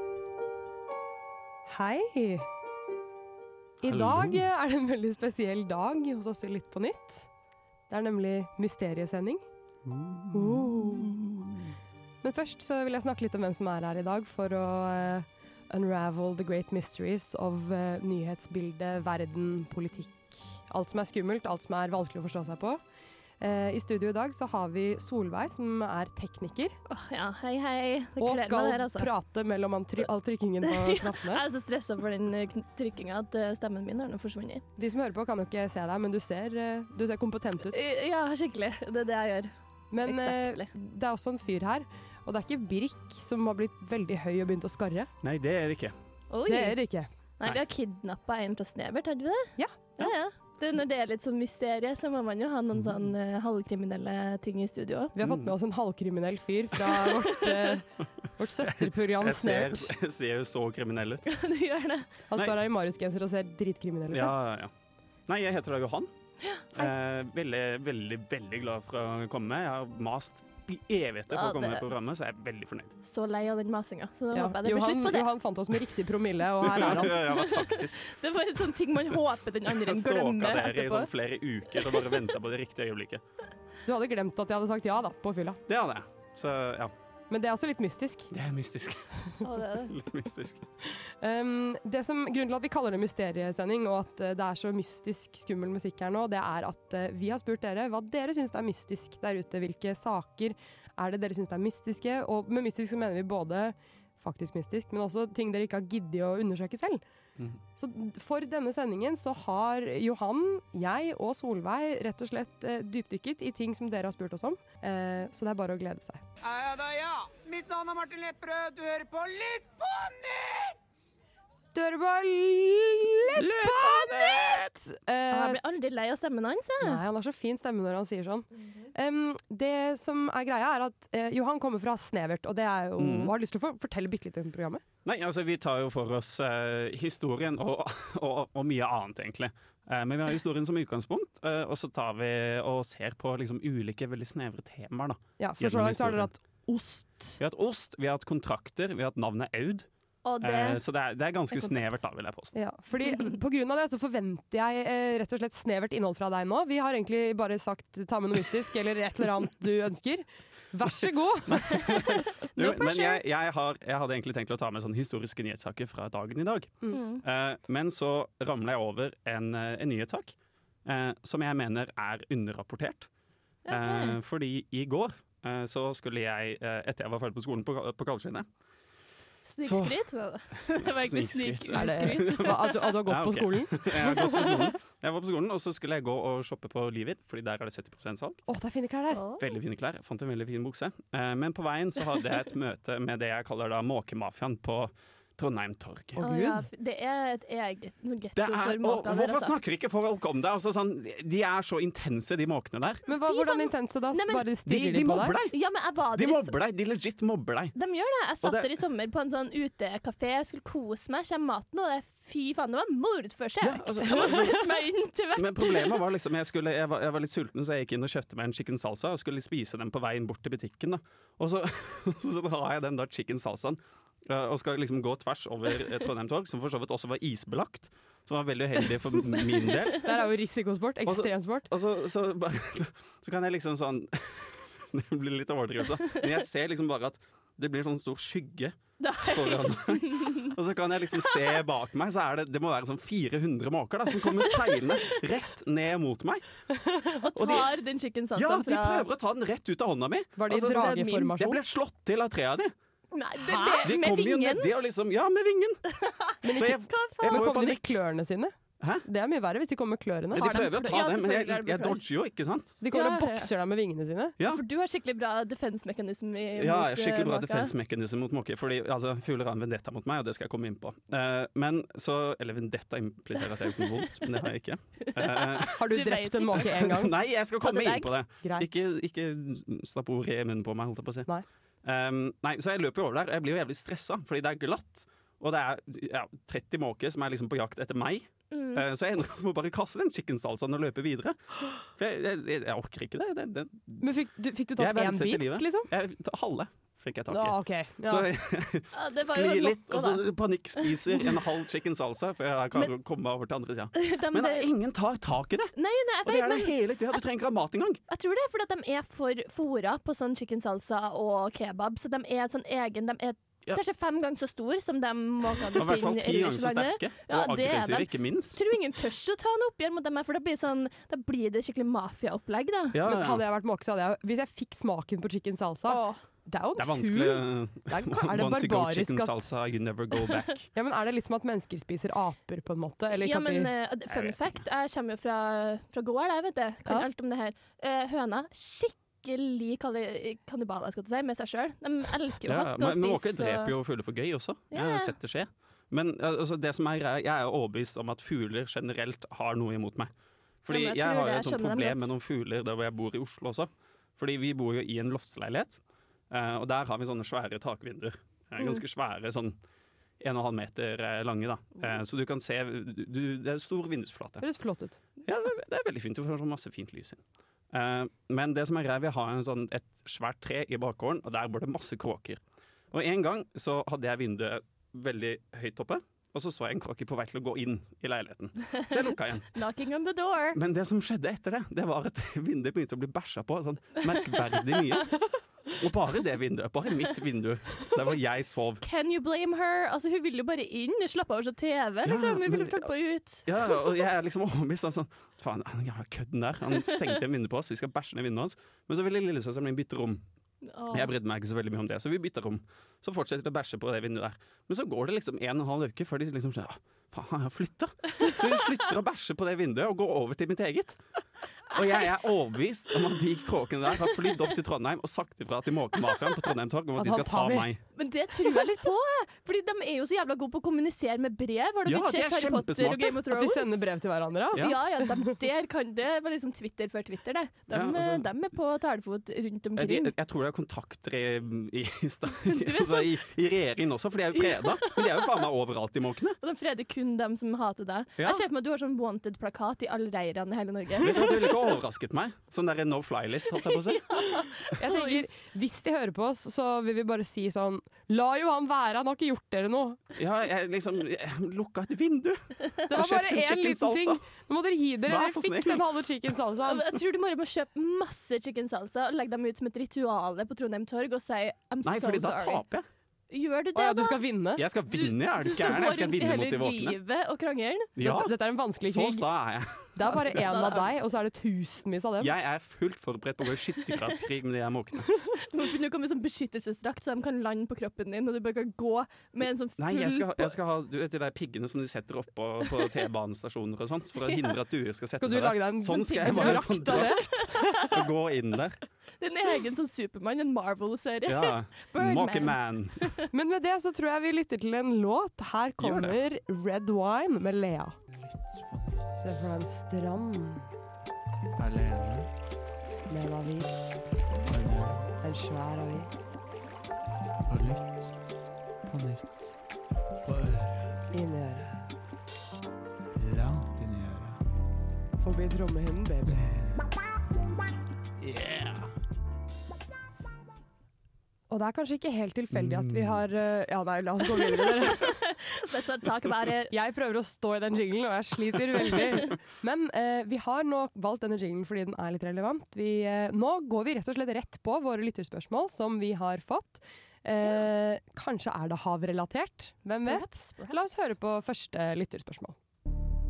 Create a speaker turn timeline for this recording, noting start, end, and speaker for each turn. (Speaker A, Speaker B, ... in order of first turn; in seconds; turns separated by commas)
Speaker A: 1.7-2.5, Speaker A: 3.8-7.3, Speaker B: 3.8-4.4, Speaker A: 7.9-9.4, Speaker A: 10.3-11.2, Speaker A: 12.2-22.8, Speaker A: 23.4-26.8, Speaker C: 26.9-29.1, Speaker A: 28.2-31.4, Speaker C: 30.6-34.6, Speaker A: 34.8-37.9, Speaker C: 37.7-39.5, Speaker A: 39.9-45.1, Speaker C: 40.0-40.7, Speaker B: 45.2-45.9, Speaker C: 46.3-46.8, Speaker A: 46.5-47.1, Speaker C: 47.4-55.1, Speaker A: 55.1-57.9, Speaker B: 55.2-55.5, Speaker C: 57.0-57.8, Speaker A: 58.4-59.9, Speaker B: 58.6-61.2, Speaker C: 61.3-62.1, Speaker A: 62.3-64.3, Speaker B: 64.1-64.7, Speaker B: 65.3-66.1, Speaker B: 66.7-72.9, Speaker C: 71.3-71.9, Speaker C: 73.0-75.3, Speaker A: 74.3-77.2, Speaker B: 76.6-78.1, Speaker C: 77.1-81.1, Speaker B: 79.7-83.2, Speaker A: 83.8-85.6, Speaker B: 85.7-86.9, Speaker A: 87.3-88.3, Speaker B: 88.3-90.6, Speaker C: 89.4-89.9, Speaker A: 91.2-107.0, Speaker A: 107.8-116.2, Speaker D: 116.4-120.8, Speaker A: 121.7-125.6, Speaker B: 123.3-124.7, Speaker C: 125.3-127.0, Speaker A: 126.8-134.8, Speaker B: 133.0-133.3, Speaker B: 135.0-146.3, Speaker A: 145.4-147.4, Speaker B: 147.4-149.9, Speaker C: 150.2-150.8, Speaker B: 150.4-152.5, Speaker C: 151.5-152.0, Speaker A: 152.5-161.7, Speaker B: 161.5-170.3, Speaker C: 161.7-163.2, Speaker C: 166.9-167.2, Speaker B: 170.8-173.1, Speaker C: 173.7-174.2, Speaker B: 173.7-178.5, Speaker C: 179.4-182.7, Speaker B: 179.6-180.0, Speaker B: 180.8-188.4, Speaker A: 181.7-184.7, Speaker A: 188.4-189.2, Speaker C: 189.1-189.6, Speaker B: 189.4-196.2, Speaker A: 196.2-196.7, Speaker C: 196.2-199.5, Speaker B: 198.4-203.0, Speaker A: 203.1-205.4, Speaker C: 203.1-204.5, Speaker B: 204.7-205.6, Speaker C: 205.5-206.6, Speaker B: 206.1-207.7, Speaker C: 207.7-216.0, Speaker B: 208.4-208.7, Speaker B: 213.6-214.8, Speaker B: 215.3-230.1, Speaker A: 230.0-231.7, Speaker B: 231.1-246.4, Speaker C: 239.0-240.5, Speaker C: 241.2-241.5, Speaker C: 244.3-245.1, Speaker C: 247.2-249.1, Speaker B: 247.3-247.7, Speaker B: 248.3-252.7, Speaker A: 250.4-251.6, Speaker C: 250.7-251.3, Speaker C: 253.1-254.7, Speaker A: 253.4-253.9, Speaker B: 253.8-255.8, Speaker C: 255.9-257.6, Speaker A: 256.4-258.5, Speaker B: 256.5-257.9, Speaker A: 259.0-260.7, Speaker C: 260.3-262.0, Speaker B: 260.3-262.8, Speaker A: 262.8-264.3, Speaker C: 262.9-263.5, Speaker B: 264.4-264.6, Speaker C: 264.4-267.7, Speaker B: 266.6-275.8, Speaker C: 275.0-276.7, Speaker A: 275.8-277.1, Speaker B: 276.7-281.3, Speaker C: 277.6-278.1, Speaker A: 278.4-278.7, Speaker B: 281.8-294.1, Speaker C: 288.5-288.8, Speaker A: 294.0-295.9, Speaker B: 294.8-308.0, Speaker A: 297.3-298.3, Speaker C: 298.9-300.2, Speaker C: 300.8-301.4, Speaker C: 303.9-304.7, Speaker C: 305.7-307.2, Speaker C: 308.1-323.0, Speaker B: 315.7-318.6, Speaker B: 322.9-323.4, Speaker A: 323.0-329.5, Speaker C: 325.9-326.2, Speaker B: 326.8-330.7, Speaker A: 330.7-333.7, Speaker C: 333.1-343.7, Speaker B: 334.1-334.6, Speaker B: 342.4-350.1, Speaker C: 344.7-345.1, Speaker B: 350.6-355.8, Speaker C: 350.7-352.1, Speaker B: 356.3-359.6, Speaker B: 360.2-364.4, Speaker A: 364.4-365.0, Speaker B: 365.2-367.2, Speaker B: 367.7-372.4, Speaker B: 372.9-379.5, Speaker C: 379.5-380.6, Speaker B: 380.5-388.8, Speaker C: 388.8-393.8, Speaker B: 392.0-392.9, Speaker B: 393.4-400.2, Speaker C: 400.6-401.1, Speaker B: 400.9-411.0, Speaker B: 411.7-417.8, Speaker C: 411.7-412.1, Speaker A: 417.0-417.7, Speaker C: 417.9-423.8, Speaker B: 421.8-423.2, Speaker A: 423.3-425.3, Speaker C: 424.5-430.1, Speaker B: 427.7-428.3, Speaker B: 429.8-436.4, Speaker C: 432.4-433.1, Speaker C: 434.4-435.2, Speaker C: 436.4-441.4, Speaker B: 441.0-444.4, Speaker C: 444.1-445.3, Speaker A: 444.8-450.0, Speaker B: 450.1-454.2, Speaker A: 452.9-456.9, Speaker B: 455.1-455.9, Speaker C: 456.6-462.6, Speaker B: 461.8-462.9, Speaker C: 463.3-464.2, Speaker A: 463.7-464.6, Speaker B: 464.6-467.0, Speaker C: 464.9-468.2, Speaker B: 468.0-470.4, Speaker A: 468.0-469.2, Speaker A: 469.9-472.3, Speaker C: 470.3-470.8, Speaker B: 472.2-475.1, Speaker C: 475.4-480.5, Speaker B: 479.8-488.8, Speaker C: 484.2-484.5, Speaker A: 485.2-487.7, Speaker C: 486.2-487.8, Speaker C: 489.2-493.2, Speaker B: 491.2-493.1, Speaker A: 493.3-498.0, Speaker B: 495.8-496.2, Speaker E: 498.1-499.2, Speaker A: 499.1-500.7, Speaker E: 501.6-502.3, Speaker A: 503.1-504.1, Speaker E: 504.4-505.1, Speaker A: 505.2-506.3, Speaker E: 507.5-508.1, Speaker E: 508.9-509.5, Speaker E: 510.2-510.9, Speaker A: 511.1-511.8, Speaker E: 513.1-514.4, Speaker A: 515.2-516.7, Speaker E: 518.2-518.8, Speaker A: 521.5-525.1, Speaker B: 522.5-523.2, Speaker C: 524.3-526.7, Speaker A: 526.7-542.5, Speaker C: 540.0-541.1